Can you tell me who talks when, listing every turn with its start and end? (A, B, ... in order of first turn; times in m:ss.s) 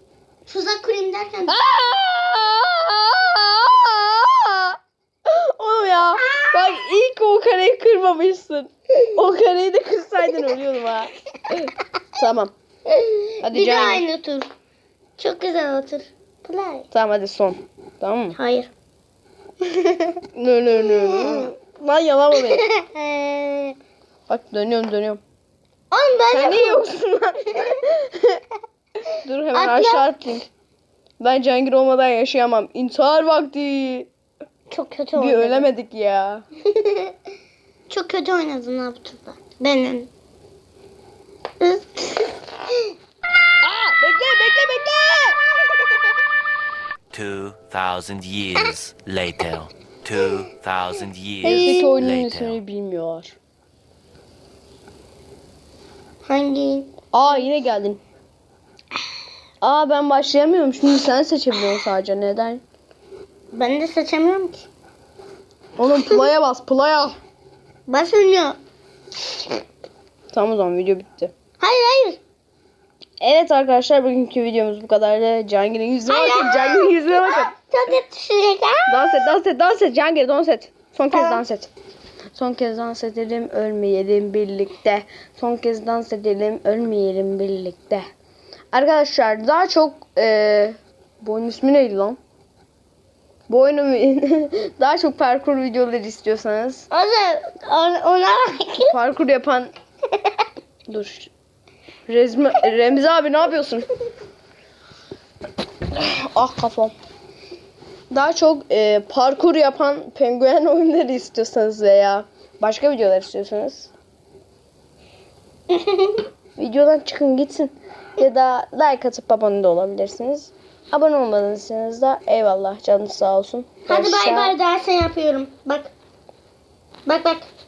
0:00.5-0:01.6 A
0:01.5-0:12.5 B
0:06.1-0:06.7 A
0:12.9-0:14.5 A
0:13.4-0:14.0 B
0:15.2-0:16.8 A
0:16.9-0:18.4 B
0:18.3-0:18.7 A
0:19.8-0:20.0 A
0:20.3-0:22.6 B
0:20.8-0:21.5 A
0:22.3-0:23.8 A
0:24.3-0:25.2 B
0:25.9-0:26.9 A
0:26.3-0:28.4 B
0:29.2-0:30.4 B
0:29.5-0:30.3 A
0:31.2-0:34.1 B
0:34.7-0:35.7 A
0:35.1-0:36.4 B
0:36.7-0:37.1 A
0:37.9-0:40.1 A
0:41.6-0:42.4 A
0:43.6-0:45.4 B
0:47.1-0:52.6 C
0:51.4-0:52.0 A
0:51.4-0:53.4 B
0:56.2-0:56.9 A
0:57.1-0:58.0 B
0:59.6-1:02.6 B
1:03.5-1:04.7 A
1:05.8-1:07.2 B
1:07.9-1:08.6 A
1:10.3-1:11.3 B
1:11.6-1:12.2 A
1:13.2-1:17.5 B
1:16.1-1:19.1 A
1:18.9-1:21.7 B
1:21.1-1:21.4 A
1:22.3-1:28.0 B
1:28.7-1:32.2 B
1:33.5-1:36.8 B
1:36.9-1:38.9 A
1:38.8-1:39.7 B
1:40.9-1:41.3 B
1:42.1-1:43.9 B
1:45.9-1:46.9 B
1:48.1-1:53.9 B
1:55.7-1:56.2 A
1:56.6-2:04.5 B
2:03.9-2:05.9 A
2:07.0-2:07.5 A